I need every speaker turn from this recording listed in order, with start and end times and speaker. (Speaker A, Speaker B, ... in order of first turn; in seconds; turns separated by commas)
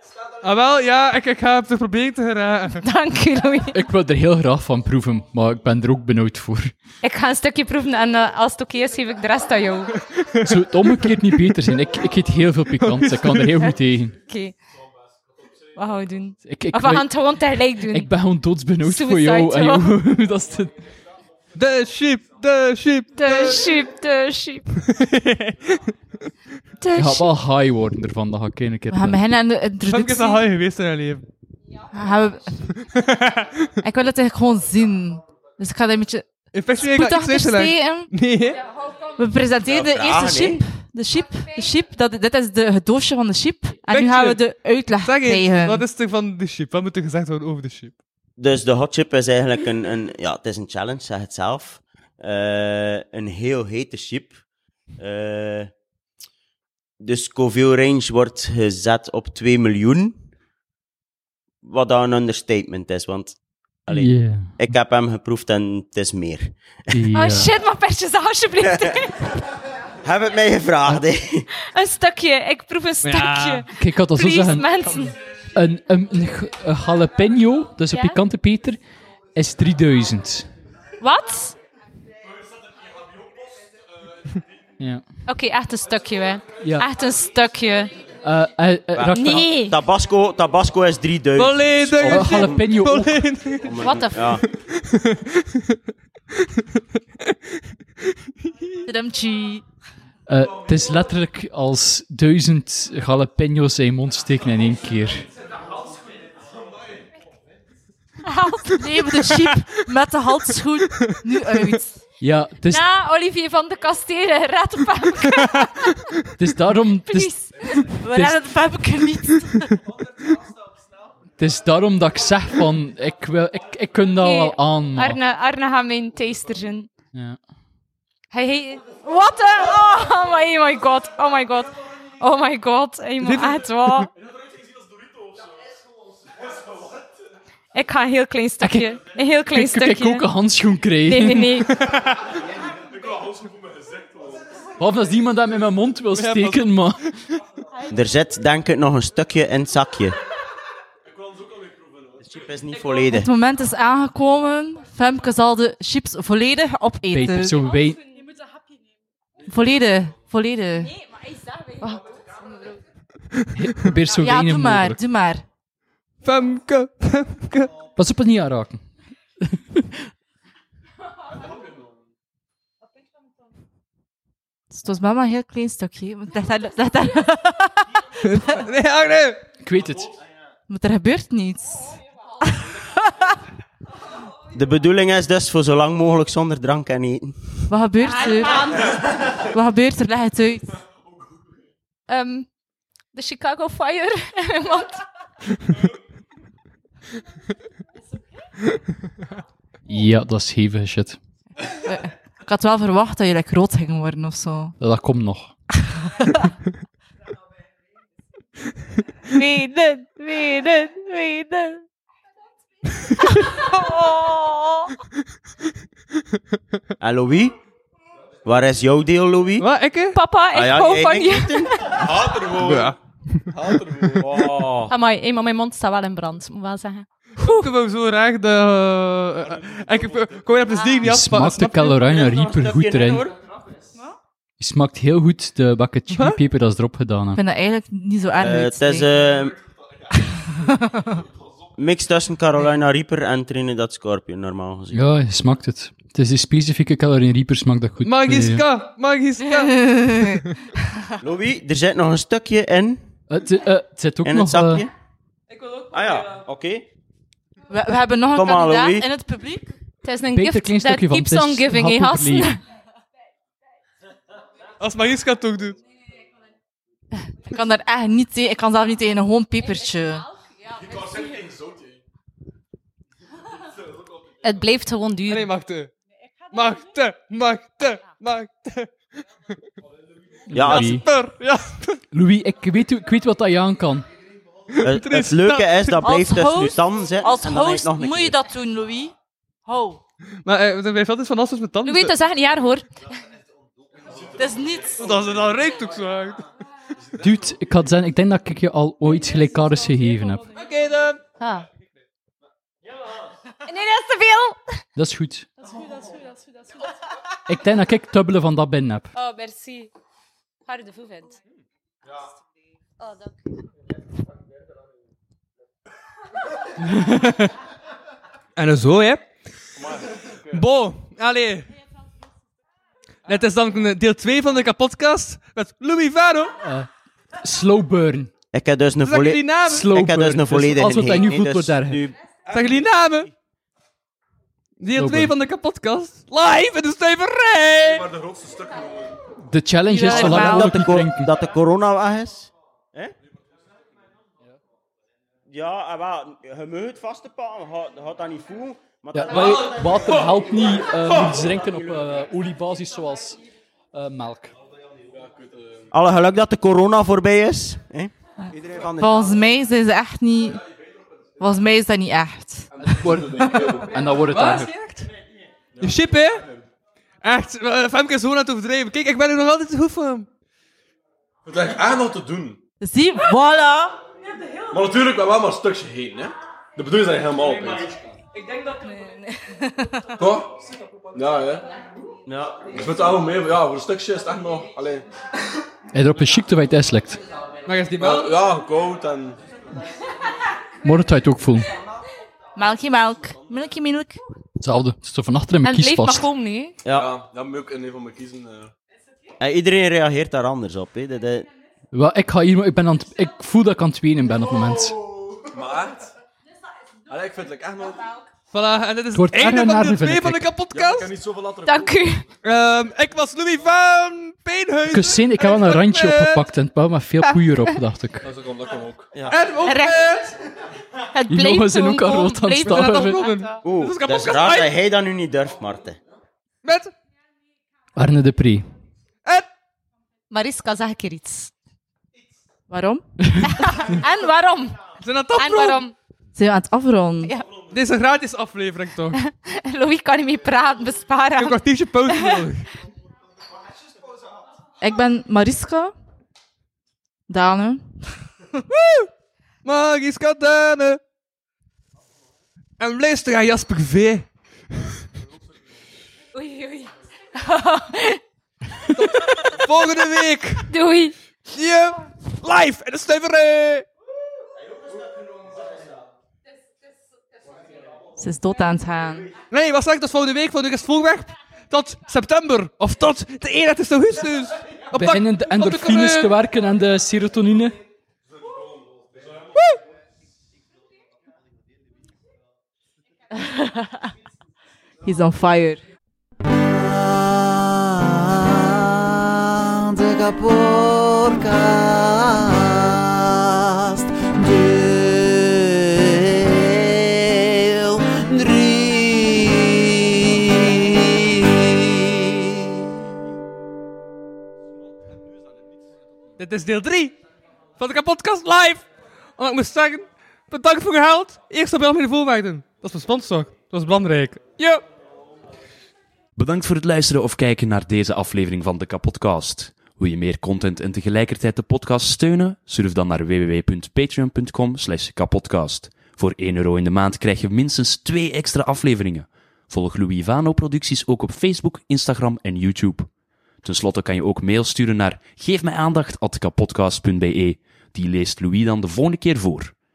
Speaker A: 0.4-2.8, Speaker B: 2.8-3.8, Speaker C: 3.7-6.7, Speaker B: 7.0-10.0, Speaker C: 10.4-14.1, Speaker A: 12.8-13.5, Speaker B: 14.2-14.5, Speaker B: 15.7-18.1, Speaker C: 16.4-20.7, Speaker B: 18.8-19.9, Speaker A: 21.5-23.7, Speaker B: 23.1-24.7, Speaker A: 24.9-25.9, Speaker B: 26.8-27.3, Speaker C: 26.9-29.2, Speaker D: 28.9-30.4, Speaker A: 29.8-31.2, Speaker D: 31.9-32.7, Speaker A: 32.9-33.5, Speaker D: 33.8-38.1, Speaker A: 36.5-38.6, Speaker D: 39.1-45.8, Speaker E: 39.6-40.6, Speaker A: 43.9-44.5, Speaker A: 45.0-47.9, Speaker E: 48.4-54.4, Speaker E: 55.0-55.7, Speaker E: 57.0-60.2, Speaker E: 61.6-63.4, Speaker E: 63.9-67.0, Speaker C: 63.9-64.5, Speaker C: 66.9-67.5, Speaker B: 67.1-69.3, Speaker E: 68.6-69.0, Speaker E: 70.0-71.5, Speaker B: 71.7-75.1, Speaker A: 73.0-73.7, Speaker C: 73.7-74.8, Speaker C: 75.5-78.8, Speaker B: 77.9-78.2, Speaker C: 79.3-80.5, Speaker B: 81.0-81.6, Speaker B: 85.3-87.9, Speaker C: 86.6-86.9, Speaker C: 88.2-89.6, Speaker E: 88.9-92.7, Speaker B: 89.0-89.8, Speaker A: 91.4-93.7, Speaker C: 92.0-93.2, Speaker E: 93.6-94.4, Speaker B: 93.8-94.2, Speaker A: 94.4-95.4, Speaker A: 98.4-98.8, Speaker D: 98.8-99.6, Speaker C: 100.3-105.2, Speaker B: 108.2-109.1, Speaker D: 108.8-112.0, Speaker C: 112.2-112.8, Speaker B: 112.7-116.0, Speaker C: 116.4-117.4, Speaker B: 117.0-118.0, Speaker D: 117.7-119.7, Speaker C: 121.4-125.2, Speaker B: 124.1-126.9, Speaker C: 127.1-127.4, Speaker B: 128.3-134.1, Speaker A: 133.2-133.6, Speaker B: 137.7-140.3, Speaker C: 138.6-141.6, Speaker B: 141.1-141.8, Speaker A: 141.7-142.3, Speaker F: 143.0-144.3, Speaker C: 144.8-147.0, Speaker A: 146.1-146.6, Speaker E: 147.8-150.2, Speaker E: 152.2-153.3, Speaker D: 153.1-157.7, Speaker C: 157.1-158.0, Speaker D: 159.4-161.0, Speaker B: 161.8-162.0, Speaker C: 163.6-165.0, Speaker D: 164.2-165.4, Speaker A: 166.2-167.7, Speaker C: 167.9-168.8, Speaker C: 169.4-169.9, Speaker D: 174.7-178.1, Speaker A: 178.2-179.4, Speaker C: 179.6-180.2, Speaker D: 180.7-183.3, Speaker E: 184.5-187.6, Speaker D: 187.7-190.8, Speaker B: 188.0-189.1, Speaker B: 192.1-192.5, Speaker B: 193.1-195.0, Speaker C: 199.9-201.2, Speaker D: 201.7-204.8, Speaker C: 204.8-205.5, Speaker D: 206.1-206.5, Speaker D: 209.3-211.1, Speaker B: 209.3-211.8, Speaker D: 213.7-214.6, Speaker E: 217.0-217.6, Speaker E: 218.4-219.7, Speaker A: 219.6-220.2, Speaker B: 220.1-222.3, Speaker E: 220.5-222.0, Speaker F: 222.0-222.9, Speaker A: 222.5-223.5, Speaker F: 223.5-224.4, Speaker E: 224.2-224.9, Speaker B: 224.9-227.7, Speaker A: 227.4-232.0, Speaker C: 231.0-233.3, Speaker E: 232.0-233.4, Speaker C: 234.6-237.4, Speaker A: 236.1-236.4, Speaker D: 237.3-239.1, Speaker E: 238.4-239.6, Speaker D: 240.3-241.1, Speaker E: 241.8-245.0, Speaker C: 244.9-248.6, Speaker A: 248.0-250.3, Speaker D: 249.6-250.9, Speaker E: 251.2-253.1, Speaker C: 253.3-254.8, Speaker E: 254.2-254.9, Speaker E: 255.8-256.9, Speaker D: 257.7-259.7, Speaker E: 258.3-259.1, Speaker B: 260.0-262.6, Speaker C: 260.3-262.5, Speaker A: 264.8-265.8, Speaker D: 267.4-270.3, Speaker B: 274.4-275.5, Speaker A: 275.3-275.9, Speaker A: 276.5-278.9, Speaker C: 280.5-281.1, Speaker E: 280.5-281.0, Speaker A: 280.6-282.0, Speaker C: 282.1-284.1, Speaker A: 284.8-286.1, Speaker E: 284.8-288.4, Speaker D: 286.0-290.0, Speaker A: 290.4-292.1, Speaker B: 291.8-292.9, Speaker F: 294.1-295.5, Speaker D: 294.3-295.1, Speaker A: 294.9-296.4, Speaker C: 297.2-300.5, Speaker A: 300.5-301.2, Speaker B: 301.4-301.6, Speaker B: 303.6-304.8, Speaker C: 304.9-305.5, Speaker C: 307.5-309.1, Speaker B: 309.1-309.9, Speaker B: 310.6-311.4, Speaker B: 313.0-313.3, Speaker A: 316.9-317.5, Speaker A: 318.6-319.2, Speaker F: 319.8-320.6, Speaker A: 320.5-321.7, Speaker A: 323.2-326.6, Speaker C: 326.6-326.9, Speaker C: 327.4-328.3, Speaker E: 328.5-332.2, Speaker A: 329.0-329.9, Speaker C: 329.6-332.0, Speaker F: 332.5-332.8, Speaker A: 332.5-333.3, Speaker A: 334.8-338.1, Speaker C: 334.9-335.3, Speaker F: 337.9-339.1, Speaker C: 339.4-341.3, Speaker B: 339.9-340.6, Speaker E: 340.1-343.1, Speaker A: 340.1-340.4, Speaker E: 345.5-350.2, Speaker C: 349.1-353.4, Speaker C: 353.9-354.5, Speaker E: 355.9-359.4, Speaker D: 359.0-360.6, Speaker D: 361.4-363.8, Speaker C: 362.9-364.7, Speaker F: 362.9-364.0, Speaker A: 364.3-365.1, Speaker F: 365.8-366.1, Speaker A: 365.8-366.4, Speaker A: 367.2-370.3, Speaker F: 371.5-372.6, Speaker D: 372.8-374.0, Speaker F: 374.7-378.0, Speaker D: 378.6-380.2, Speaker F: 380.2-380.6, Speaker F: 381.1-381.6, Speaker E: 382.2-382.9, Speaker F: 382.9-385.0, Speaker C: 385.9-387.2, Speaker A: 387.6-388.4, Speaker F: 388.0-389.4, Speaker C: 390.8-391.7, Speaker D: 392.6-394.2, Speaker C: 394.6-396.2, Speaker B: 395.6-396.8, Speaker E: 396.8-397.1, Speaker F: 397.0-398.7, Speaker E: 399.4-401.5, Speaker C: 401.9-405.1, Speaker F: 405.4-406.1, Speaker F: 407.1-408.1, Speaker A: 408.5-411.1, Speaker C: 409.1-410.5, Speaker F: 410.7-411.9, Speaker B: 411.6-412.2, Speaker A: 412.4-416.4, Speaker C: 414.9-418.2, Speaker F: 418.2-419.1, Speaker E: 419.1-419.4, Speaker A: 419.3-420.3, Speaker B: 419.6-420.1, Speaker B: 421.1-423.5, Speaker C: 421.3-423.2, Speaker A: 422.6-424.7, Speaker E: 423.6-426.0, Speaker A: 426.6-426.9, Speaker C: 427.9-428.7, Speaker B: 430.3-431.5, Speaker D: 432.7-433.1, Speaker B: 433.4-434.8, Speaker A: 435.0-435.8, Speaker B: 435.3-435.9, Speaker D: 436.3-437.3, Speaker A: 437.7-439.2, Speaker B: 439.2-442.4, Speaker A: 441.4-442.7, Speaker D: 444.8-445.9, Speaker D: 447.3-448.6, Speaker A: 448.7-449.1, Speaker A: 449.6-451.0, Speaker A: 452.8-454.2, Speaker B: 456.3-458.2, Speaker B: 458.8-459.6, Speaker A: 458.9-460.7, Speaker B: 460.7-461.1, Speaker A: 461.5-463.9, Speaker D: 468.2-469.3, Speaker A: 469.5-476.3, Speaker C: 474.9-477.8, Speaker D: 485.0-485.8, Speaker G: 486.7-488.8, Speaker G: 489.6-500.1, Speaker G: 500.6-500.9, Speaker A: 506.4-507.2, Speaker A: 507.8-508.9, Speaker A: 509.4-514.8, Speaker H: 516.4-533.1, Speaker H: 533.6-539.7